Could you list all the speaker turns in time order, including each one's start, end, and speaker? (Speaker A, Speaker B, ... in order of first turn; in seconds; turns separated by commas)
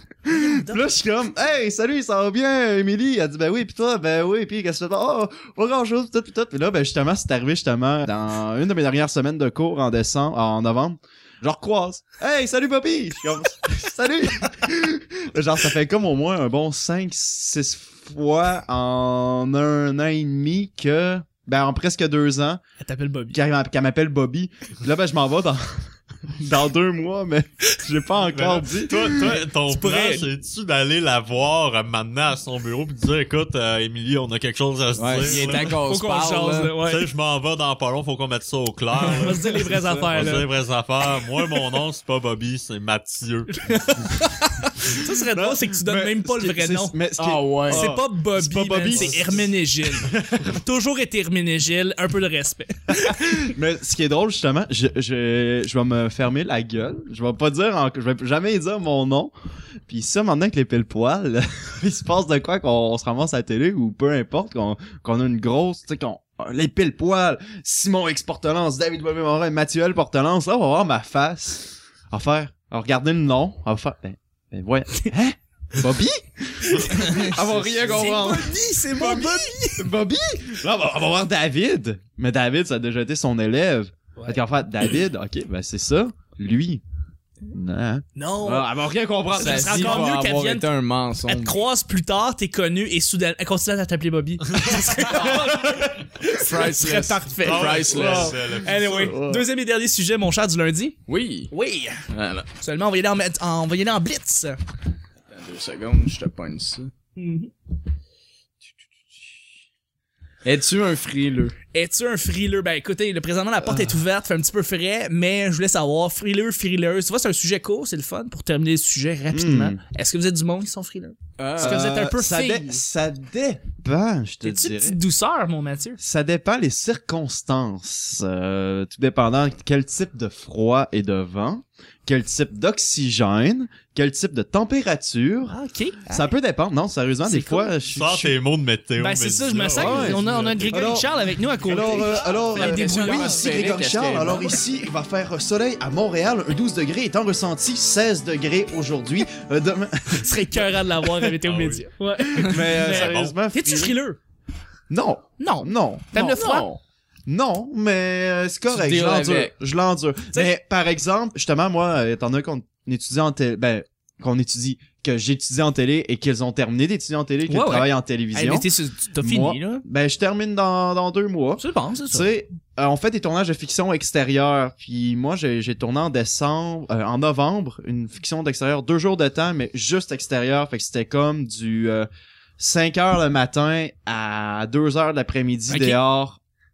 Speaker A: 0.3-0.9, Speaker B: 0.3-22.6, Speaker A: 22.8-23.4, Speaker B: 23.3-29.4, Speaker C: 28.3-35.8, Speaker A: 29.2-30.3, Speaker D: 35.0-36.8, Speaker A: 35.3-37.0, Speaker C: 36.8-43.8, Speaker A: 39.0-40.5, Speaker A: 43.5-47.0, Speaker B: 45.3-49.5, Speaker D: 47.2-47.9, Speaker A: 47.7-53.5, Speaker B: 50.0-50.5, Speaker B: 52.9-59.3, Speaker B: 59.9-86.8, Speaker A: 76.7-77.3, Speaker D: 77.3-78.1, Speaker A: 77.8-79.9, Speaker A: 84.2-84.4, Speaker B: 87.5-90.1, Speaker A: 88.2-88.7, Speaker A: 89.3-90.7, Speaker D: 89.3-91.6, Speaker A: 91.2-101.0, Speaker C: 94.5-95.0, Speaker D: 95.2-95.5, Speaker D: 96.3-98.4, Speaker C: 97.4-99.2, Speaker D: 99.0-99.4, Speaker D: 101.1-101.5, Speaker A: 101.5-102.0, Speaker D: 102.1-102.5, Speaker A: 102.6-104.6, Speaker D: 105.3-106.9, Speaker A: 107.2-107.5, Speaker D: 110.4-111.6, Speaker A: 111.7-122.8, Speaker B: 113.6-114.0, Speaker B: 119.3-119.8, Speaker D: 121.4-121.8, Speaker B: 121.6-125.0, Speaker A: 124.4-126.0, Speaker B: 126.0-138.3, Speaker A: 135.5-136.3, Speaker A: 137.2-137.7, Speaker C: 137.9-141.0, Speaker A: 139.0-144.5, Speaker B: 139.8-141.1, Speaker B: 141.6-151.3, Speaker D: 142.5-144.6, Speaker A: 150.1-154.2, Speaker C: 151.4-151.9, Speaker B: 152.3-153.9, Speaker C: 152.8-153.4, Speaker B: 154.9-156.7, Speaker A: 155.4-156.7, Speaker D: 156.4-156.8, Speaker B: 157.3-168.7, Speaker D: 158.7-159.5, Speaker A: 167.5-169.8, Speaker B: 169.2-182.1, Speaker A: 171.6-172.3, Speaker B: 182.6-186.4, Speaker A: 185.7-186.0